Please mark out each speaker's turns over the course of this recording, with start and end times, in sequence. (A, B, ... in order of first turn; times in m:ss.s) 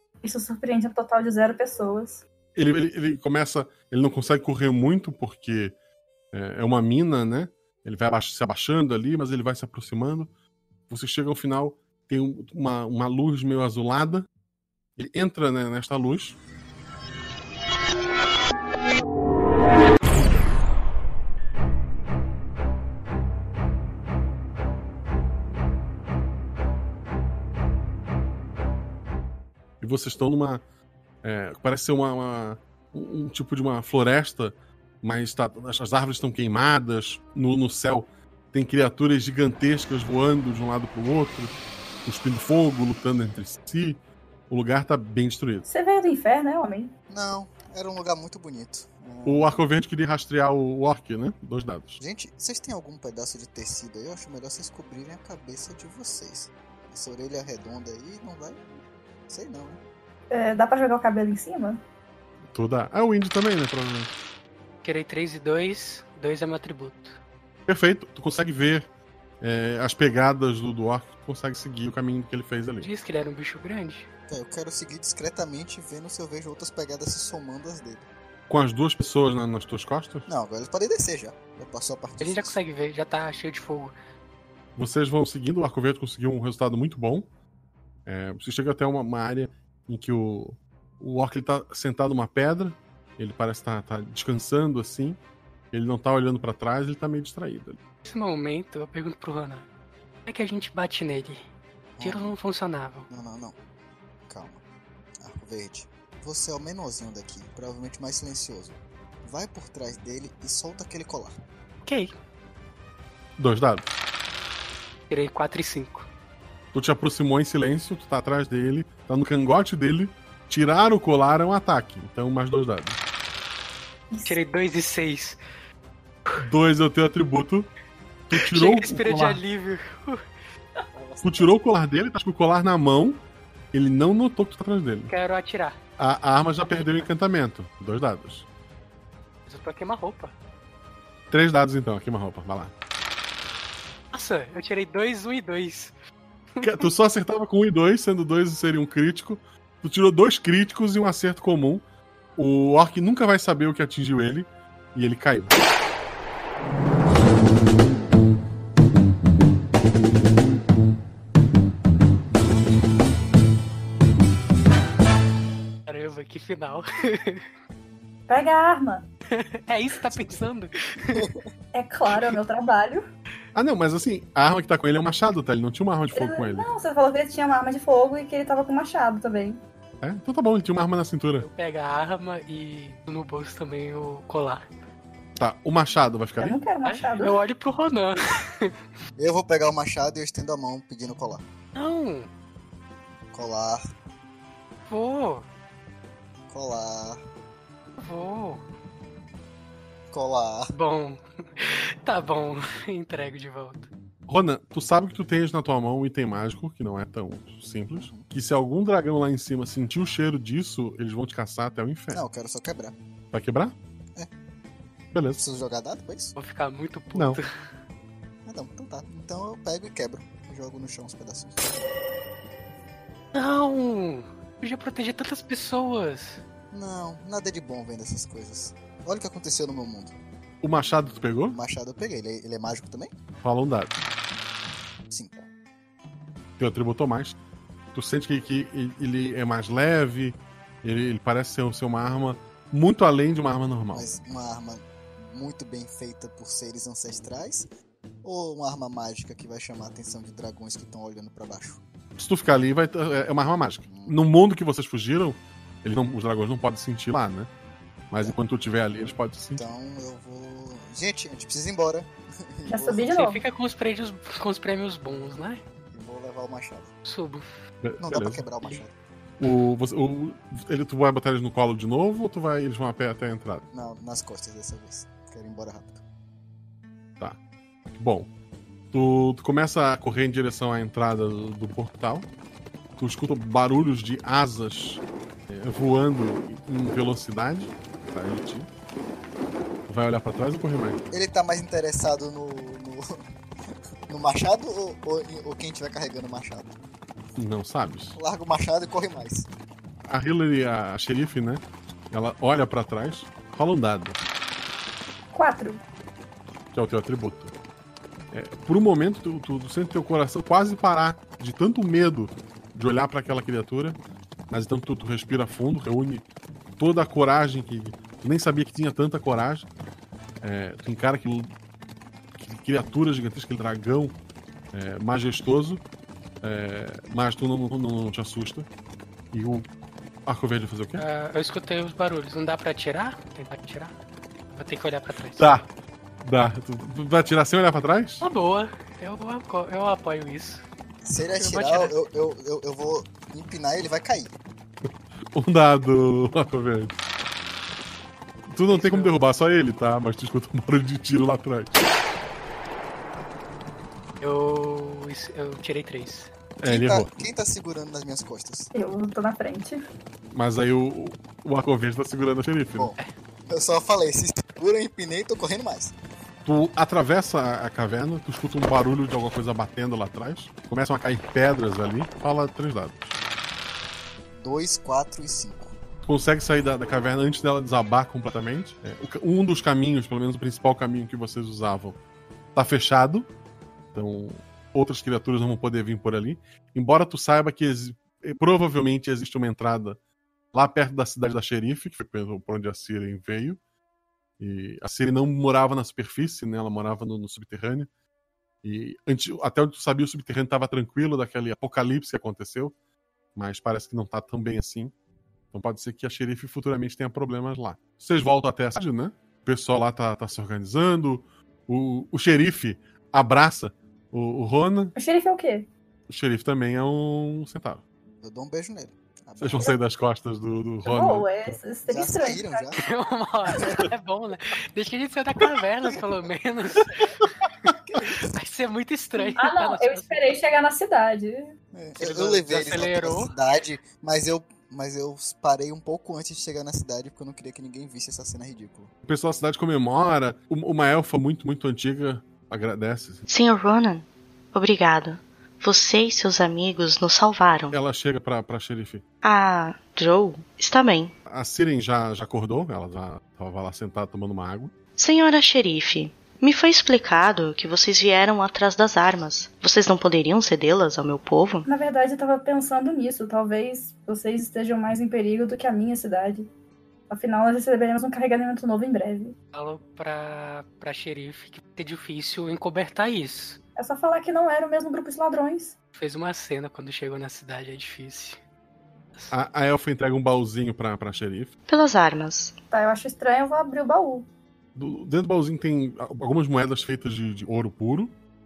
0:00.2-0:02.2 A
0:02.6-0:05.7 B
0:06.3-0:10.3 B
0:10.9-0:14.3 B
0:15.0-0:16.4 B
0:29.8-0:30.6 B
0:31.2-0:41.5 B
0:42.0-0:45.6 B
0:45.6-0:46.9 A
0:47.1-0:49.6 C
0:49.2-0:52.0 B
0:52.0-0:58.6 C
0:59.3-0:59.8 C
1:00.3-1:01.8 A
1:02.4-1:04.1 B
1:04.8-1:07.2 D
1:07.7-1:08.9 B
1:09.4-1:12.9 B
1:12.8-1:14.1 D
1:14.3-1:18.1 C
1:18.5-1:20.3 B
1:20.3-1:22.6 C
1:22.2-1:23.9 D
1:24.8-1:27.3 B
1:28.0-1:35.2 B
1:35.7-1:37.8 B
1:38.0-1:39.6 D
1:40.2-1:41.4 D
1:42.0-1:42.3 C
1:42.0-1:43.1 D
1:43.1-1:43.6 C
1:44.3-1:44.6 C
1:45.2-1:51.4 C
1:51.8-1:52.1 D
1:53.4-1:53.9 B
1:55.1-1:56.1 D
1:56.7-2:03.0 B
2:04.1-2:04.4 A
2:04.2-2:05.4 D
2:06.4-2:07.7 B
2:08.3-2:09.4 B
2:08.3-2:10.2 D
2:10.9-2:11.6 C
2:11.2-2:13.2 B
2:13.7-2:15.1 B
2:15.1-2:15.8 D
2:16.0-2:18.4 B
2:19.5-2:20.3 D
2:21.3-2:22.7 B
2:24.1-2:25.9 D
2:26.6-2:26.9 D
2:26.6-2:31.8 B
2:32.4-2:35.5 B
2:45.9-2:47.4 D
2:48.3-2:49.0 A
2:49.3-2:51.3 D
2:51.1-2:51.4 C
2:51.7-2:53.0 A
2:53.5-2:56.7 B
2:56.1-2:59.6 A
3:00.0-3:01.4 B
3:01.4-3:04.6 D
3:05.4-3:06.6 B
3:06.4-3:07.4 A
3:06.8-3:08.7 D
3:09.2-3:11.4 C
3:11.7-3:12.3 D
3:13.3-3:13.8 C
3:14.9-3:15.4 D
3:16.5-3:17.2 C
3:18.0-3:18.6 D
3:20.1-3:20.7 C
3:20.7-3:23.9 D
3:24.3-3:32.2 B
3:27.9-3:28.3 C
3:32.1-3:33.0 C
3:33.3-3:33.8 B
3:35.1-3:35.4 B
3:35.3-3:36.3 C
3:36.4-3:37.5 D
3:37.1-3:37.4 B
3:38.4-3:41.8 C
3:43.3-3:46.4 D
3:46.7-3:50.2 C
3:50.6-3:51.6 B
3:51.5-3:53.1 C
3:53.4-3:53.9 B
3:55.1-3:55.5 C
3:56.6-3:57.4 B
3:57.9-4:04.0 B
4:03.9-4:07.7 C
4:08.2-4:11.8 C
4:12.2-4:17.5 B
4:13.8-4:14.2 C
4:18.1-4:19.6 B
4:19.6-4:23.1 C
4:22.7-4:23.4 A
4:23.1-4:25.6 D
4:25.9-4:26.9 C
4:27.0-4:27.4 D
4:27.8-4:28.4 B
4:28.0-4:28.9 C
4:29.4-4:33.6 B
4:33.7-4:36.0 C
4:37.9-4:38.3 B
4:38.9-4:42.3 B
4:43.0-4:48.7 B
4:49.9-4:51.0 B
4:51.1-4:53.2 C
4:54.1-4:56.8 C
4:57.4-4:58.2 B
4:58.1-4:59.5 C
5:00.1-5:04.2 B
5:05.3-5:05.8 A
5:06.7-5:07.5 B
5:08.3-5:14.0 B
5:14.5-5:16.2 B
5:16.8-5:19.7 B
5:20.4-5:21.5 B
5:22.4-5:24.2 B
5:24.7-5:25.8 B
5:26.4-5:28.7 B
5:29.3-5:29.7 B
5:30.2-5:31.0 B
5:31.0-5:33.9 D
5:34.5-5:35.6 D
5:35.4-5:35.7 B
5:36.2-5:38.2 B
5:38.2-5:40.6 D
5:41.0-5:44.3 C
5:41.3-5:42.0 D
5:45.3-5:47.0 B
5:48.5-5:51.8 B
5:48.7-5:49.2 D
5:54.2-5:56.3 D
5:56.6-5:57.1 B
5:56.6-5:58.7 C
5:58.7-5:59.8 A
6:00.3-6:02.9 B
6:03.5-6:05.9 C
6:06.4-6:13.1 B
6:14.3-6:15.7 C
6:16.0-6:22.0 B
6:22.5-6:23.3 B
6:23.9-6:30.0 B
6:30.5-6:33.6 B
6:34.4-6:37.9 B
6:38.6-6:42.7 B
6:43.3-6:44.9 B
6:45.5-6:54.9 B
6:54.9-6:55.7 A
6:56.1-6:57.8 B
6:58.2-6:59.8 C
6:59.4-7:01.3 B
7:00.8-7:02.7 A
7:01.9-7:02.8 C
7:02.8-7:07.3 D
7:07.8-7:08.3 C
7:08.2-7:10.1 D
7:09.2-7:11.5 A
7:11.7-7:18.9 C
7:12.0-7:13.3 D
7:19.0-7:23.2 B
7:23.3-7:27.7 E
7:27.7-7:29.0 B
7:29.2-7:31.1 E
7:31.3-7:34.7 B
7:35.0-7:41.6 E
7:41.6-7:46.5 A
7:47.1-7:49.3 A
7:49.5-7:53.6 D
7:53.8-7:55.7 A
7:55.9-7:58.4 D
7:59.3-8:01.5 B
8:01.7-8:02.5 E
8:02.7-8:04.3 A
8:04.7-8:08.1 B